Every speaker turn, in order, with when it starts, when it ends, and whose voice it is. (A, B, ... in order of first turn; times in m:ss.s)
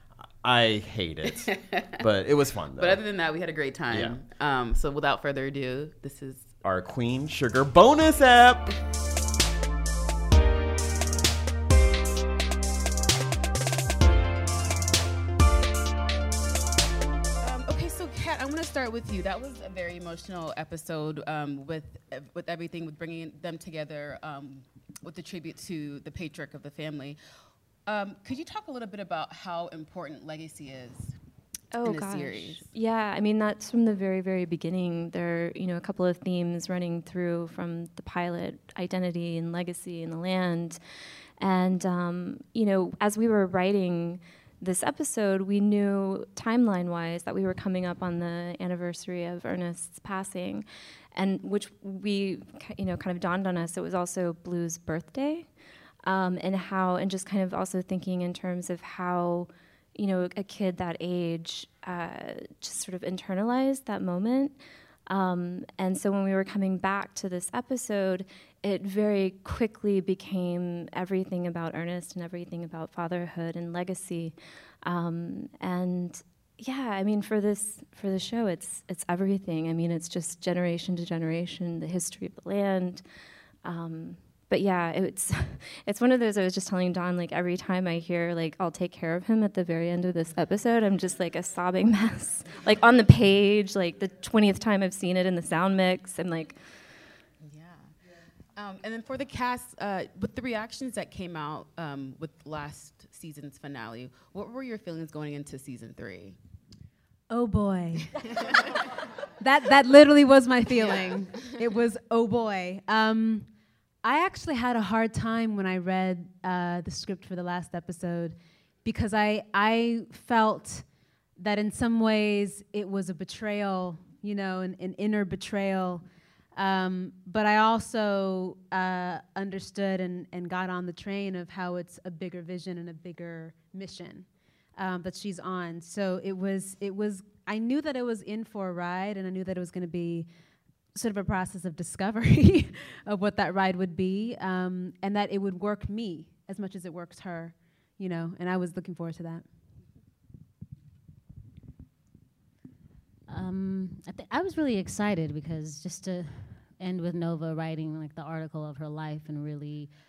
0:00.4-0:03.0 A
0:01.2-0:02.0 B
0:02.7-0:06.6 B
0:03.9-0:04.2 A
0:06.6-0:08.7 A
0:17.4-0:27.2 B
0:27.8-0:31.2 B
0:31.7-0:40.8 C
0:31.8-0:32.7 B
0:41.4-0:55.5 C
0:56.0-1:23.0 C
1:23.6-1:36.6 C
1:37.4-1:37.9 B
1:38.5-1:46.4 B
1:47.3-1:48.8 D
1:49.4-1:53.5 D
1:50.7-1:51.6 B
1:54.0-2:00.8 D
2:01.4-2:06.0 D
2:06.5-2:20.3 D
2:20.9-2:29.5 D
2:33.3-2:39.9 E